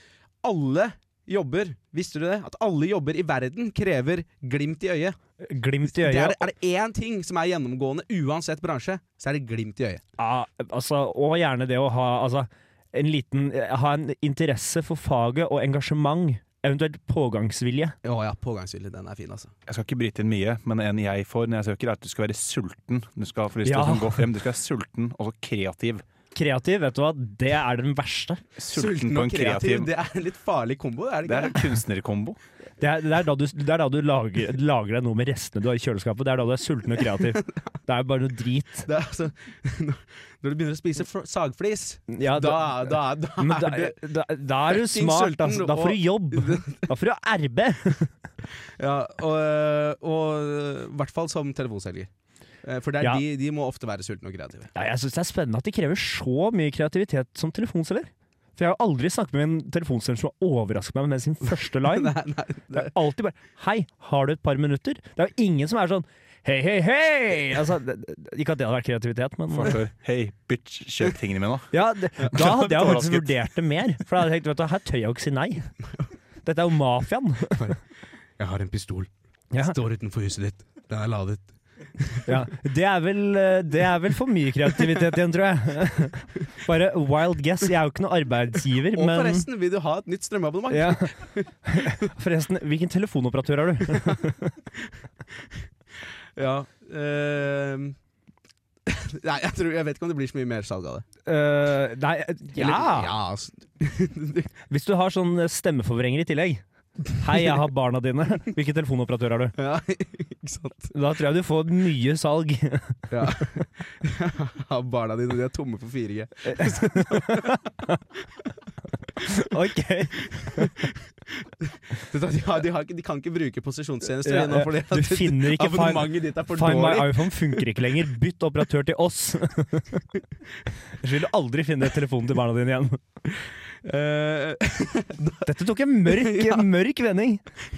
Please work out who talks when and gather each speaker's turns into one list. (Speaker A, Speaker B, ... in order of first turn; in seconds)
Speaker A: 0.4-5.2, 5.9-10.0, 18.0-19.5, 28.7-31.7, 38.9-44.0, 44.7-46.9, 48.8-52.1, 52.6-54.7, 61.7-62.9, 78.4-82.3, 88.9-91.5, 93.9-94.2, 96.3-98.0, 98.8-101.0, 102.5-104.5, 109.6-110.9, 113.1-117.6, 120.5-120.9, 121.6-127.6, 133.8-135.5, 136.1-136.7
Speaker B: 5.4-6.5, 10.2-17.9, 23.6-24.2, 26.3-28.4, 32.8-38.9, 42.1-48.1, 54.7-62.1, 62.7-69.8, 71.7-75.7, 76.4-77.7, 82.2-89.5, 90.7-91.1, 91.6-94.5, 101.2-103.1, 104.7-106.6, 107.1-109.5, 110.9-113.0, 116.5-118.0, 119.2-120.8, 124.2-130.0, 131.0-133.0, 135.4-137.4
Speaker C: 19.7-26.0, 28.6-29.9, 31.2-32.4, 69.5-71.7, 72.3-73.3